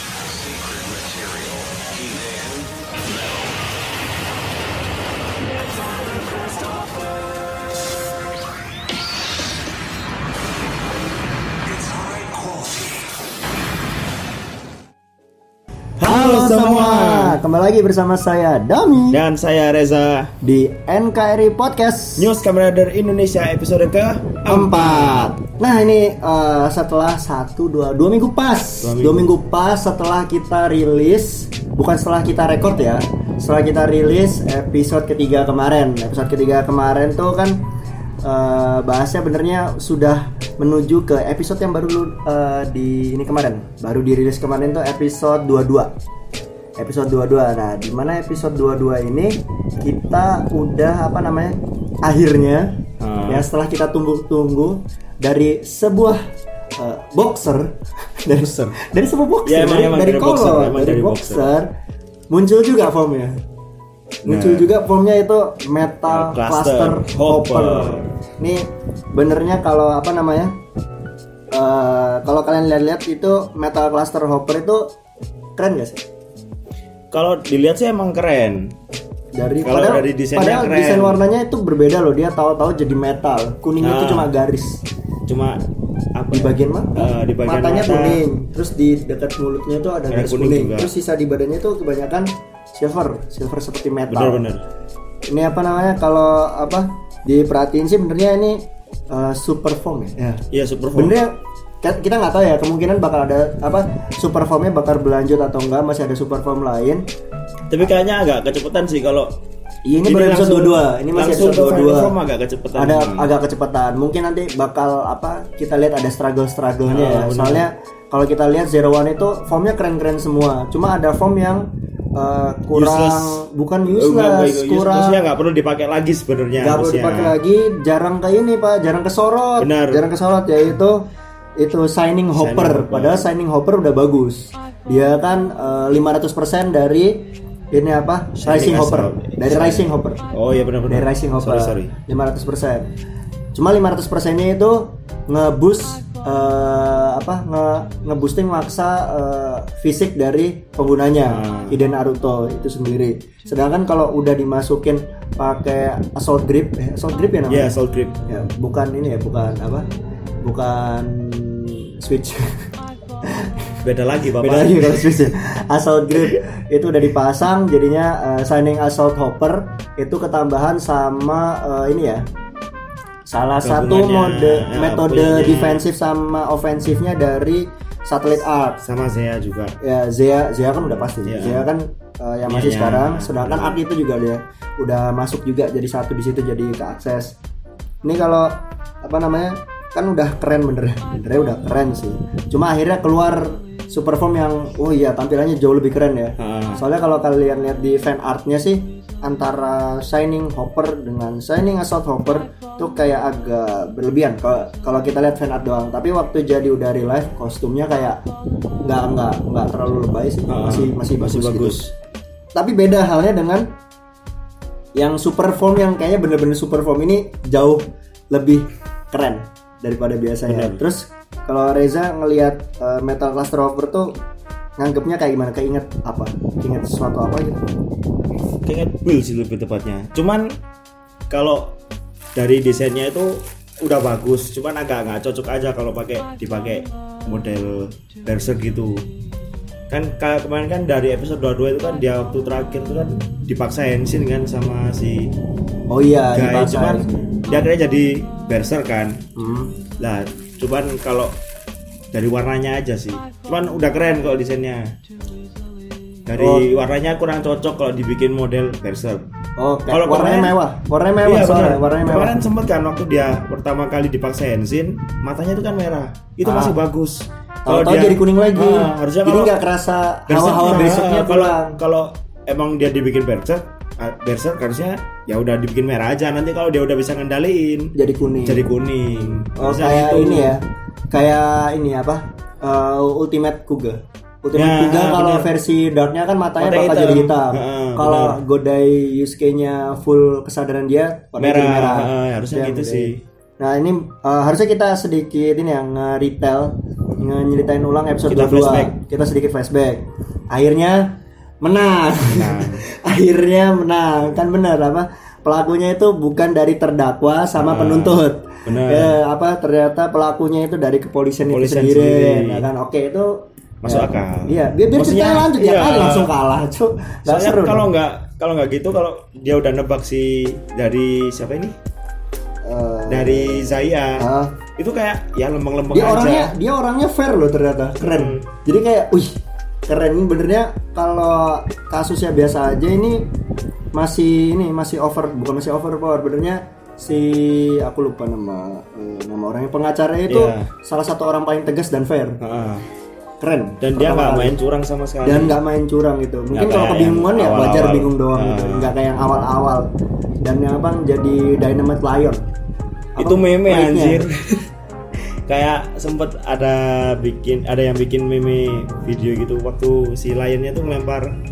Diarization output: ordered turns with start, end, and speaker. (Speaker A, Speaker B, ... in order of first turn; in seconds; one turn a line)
Speaker A: 0.2-2.7
Speaker A: 11.7-13.0
Speaker B: 16.0-19.2
Speaker C: 16.0-17.4
Speaker C: 19.1-20.3
Speaker B: 20.4-22.3
Speaker C: 22.2-25.3
Speaker B: 24.5-37.6
Speaker C: 28.8-29.3
Speaker B: 38.2-45.9
Speaker B: 46.8-56.2
Speaker C: 53.0-53.5
Speaker B: 56.8-61.7
Speaker C: 58.4-58.8
Speaker C: 59.5-61.5
Speaker B: 62.3-63.4
Speaker C: 64.2-64.7
Speaker B: 64.3-70.6
Speaker C: 66.1-68.1
Speaker B: 71.5-74.9
Speaker B: 75.6-76.0
Speaker C: 77.1-78.7
Speaker B: 79.3-84.8
Speaker C: 79.6-81.2
Speaker C: 83.8-84.3
Speaker C: 85.3-85.6
Speaker C: 86.2-88.2
Speaker B: 86.3-94.4
Speaker C: 90.1-90.9
Speaker C: 94.1-94.6
Speaker B: 95.3-100.4
Speaker C: 100.5-101.2
Speaker B: 100.9-107.1
Speaker C: 107.7-109.3
Speaker B: 109.9-112.1
Speaker C: 110.0-113.3
Speaker B: 112.7-125.2
Speaker C: 116.9-117.6
Speaker C: 122.7-127.4
Speaker B: 126.6-131.1
Speaker C: 129.6-130.0
Speaker B: 131.6-140.2
Speaker C: 132.3-133.3
Speaker C: 138.4-141.9
Speaker B: 140.9-142.9
Speaker B: 143.6-157.7
Speaker C: 151.3-151.8
Speaker C: 157.5-158.2
Speaker B: 158.3-159.9
Speaker B: 160.4-162.7
Speaker B: 163.2-163.7
Speaker C: 163.8-165.3
Speaker B: 164.4-172.3
Speaker B: 173.3-178.8
Speaker C: 173.6-175.8
Speaker C: 178.8-179.8
Speaker B: 179.8-187.4
Speaker C: 181.0-181.7
Speaker C: 182.5-183.8
Speaker B: 188.0-208.2
Speaker C: 196.4-196.8
Speaker B: 208.8-211.9
Speaker C: 210.5-211.9
Speaker B: 212.6-213.7
Speaker B: 215.0-224.2
Speaker C: 220.5-220.8
Speaker B: 224.8-227.6
Speaker C: 228.6-230.5
Speaker C: 231.3-231.8
Speaker C: 232.3-239.1
Speaker C: 239.9-245.3
Speaker B: 245.9-247.3
Speaker C: 246.3-249.2
Speaker B: 249.4-249.8
Speaker C: 250.0-251.3
Speaker C: 252.1-254.9
Speaker C: 256.3-259.2
Speaker B: 256.4-256.7
Speaker B: 259.6-262.5
Speaker C: 259.9-260.6
Speaker C: 261.2-269.6
Speaker B: 266.4-266.8
Speaker B: 267.6-271.8
Speaker C: 270.3-277.9
Speaker B: 277.9-278.7
Speaker C: 278.4-280.6
Speaker B: 279.6-317.9
Speaker C: 284.5-285.5
Speaker C: 286.6-288.4
Speaker C: 291.4-293.2
Speaker C: 298.3-298.9
Speaker C: 302.3-302.8
Speaker C: 307.6-309.2
Speaker C: 311.4-312.6
Speaker C: 313.8-316.3
Speaker C: 317.3-321.8
Speaker B: 322.6-323.6
Speaker C: 323.1-324.2
Speaker B: 324.2-324.5
Speaker C: 324.8-326.6
Speaker B: 325.9-329.4
Speaker C: 328.0-328.4
Speaker B: 329.9-333.3
Speaker B: 333.9-342.4
Speaker C: 340.3-340.7
Speaker C: 342.4-342.9
Speaker B: 343.4-344.6
Speaker C: 343.8-345.6
Speaker B: 345.2-349.9
Speaker C: 346.5-349.0
Speaker B: 350.4-352.4
Speaker B: 353.2-354.2
Speaker C: 353.2-354.6
Speaker C: 355.5-361.4